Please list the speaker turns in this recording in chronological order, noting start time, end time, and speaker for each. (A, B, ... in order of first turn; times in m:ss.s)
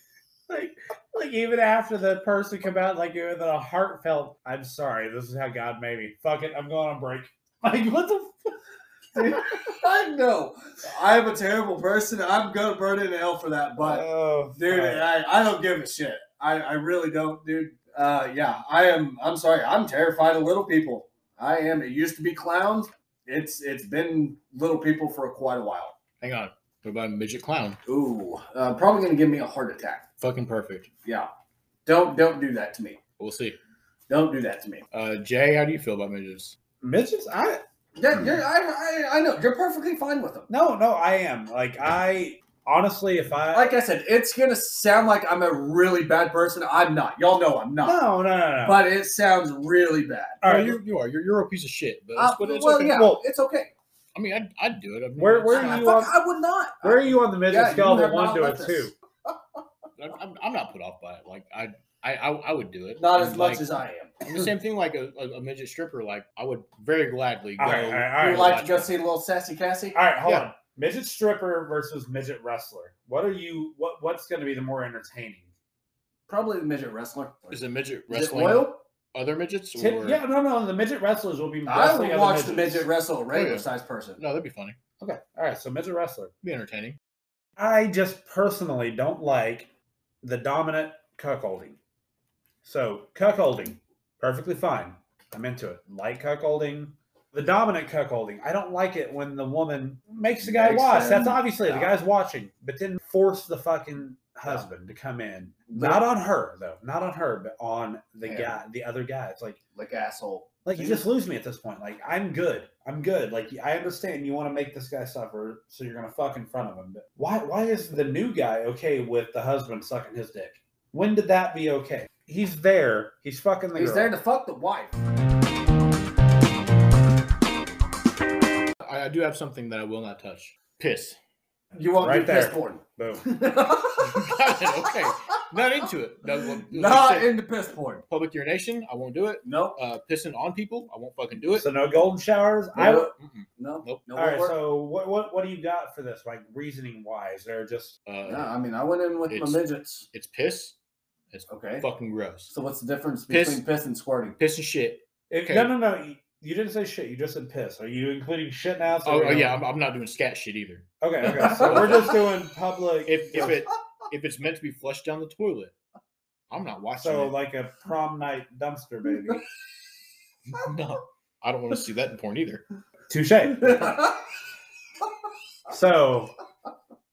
0:00.5-0:08.5 A
0:09.1-0:26.0 B
0:13.8-0:15.1 A
0:26.2-0:27.8 C
0:27.8-0:30.0 B
0:30.2-0:30.9 C
0:31.0-0:31.3 B
0:31.8-0:33.0 B
0:33.2-0:33.6 C
0:34.1-0:34.8 B
0:34.9-0:36.5 C
0:36.8-0:37.6 A
0:38.0-0:40.5 B
0:40.5-0:43.8 A
0:43.5-0:48.0 B
0:47.8-0:48.8 A
0:48.6-0:50.4 B
0:50.4-0:50.8 A
0:50.4-0:53.0 C
0:52.2-0:53.7 B
0:52.9-0:53.2 A
0:54.1-0:56.0 C
0:55.2-0:56.1 A
0:55.5-0:59.3 B
0:56.8-0:58.9 A
1:00.0-1:08.9 C
1:03.0-1:04.1 B
1:07.6-1:08.6 A
1:08.2-1:10.0 B
1:09.9-1:15.5 A
1:16.3-1:18.8 B
1:17.5-1:20.2 C
1:19.8-1:22.9 A
1:21.7-1:24.2 B
1:23.3-1:24.8 C
1:25.0-1:26.3 A
1:26.4-1:27.0 C
1:27.6-1:29.7 A
1:30.2-1:31.8 A
1:32.6-1:49.6 A
1:40.4-1:41.9 B
1:45.7-1:46.0 B
1:48.2-1:48.6 B
1:49.7-1:51.0 B
1:50.6-2:04.1 A
2:03.7-2:05.0 B
2:08.8-2:11.2 C
2:11.7-2:15.2 B
2:12.0-2:13.3 A
2:14.0-2:17.3 C
2:16.3-2:18.0 B
2:18.1-2:21.7 C
2:19.4-2:19.8 B
2:21.5-2:23.1 A
2:22.7-2:24.6 B
2:23.2-2:24.0 C
2:24.2-2:28.0 A
2:28.0-2:28.5 C
2:28.2-2:30.1 B
2:29.3-2:30.8 C
2:31.3-2:32.5 C
2:31.5-2:31.8 B
2:32.5-2:34.4 B
2:33.3-2:33.6 C
2:34.4-2:35.7 C
2:35.3-2:39.6 A
2:39.0-2:42.1 C
2:41.0-2:43.5 A
2:41.4-2:42.0 B
2:43.0-2:45.7 C
2:46.5-2:47.4 C
2:47.0-2:49.4 A
2:50.5-2:52.6 C
2:53.1-2:54.1 A
2:53.6-2:54.2 B
2:55.7-2:56.3 A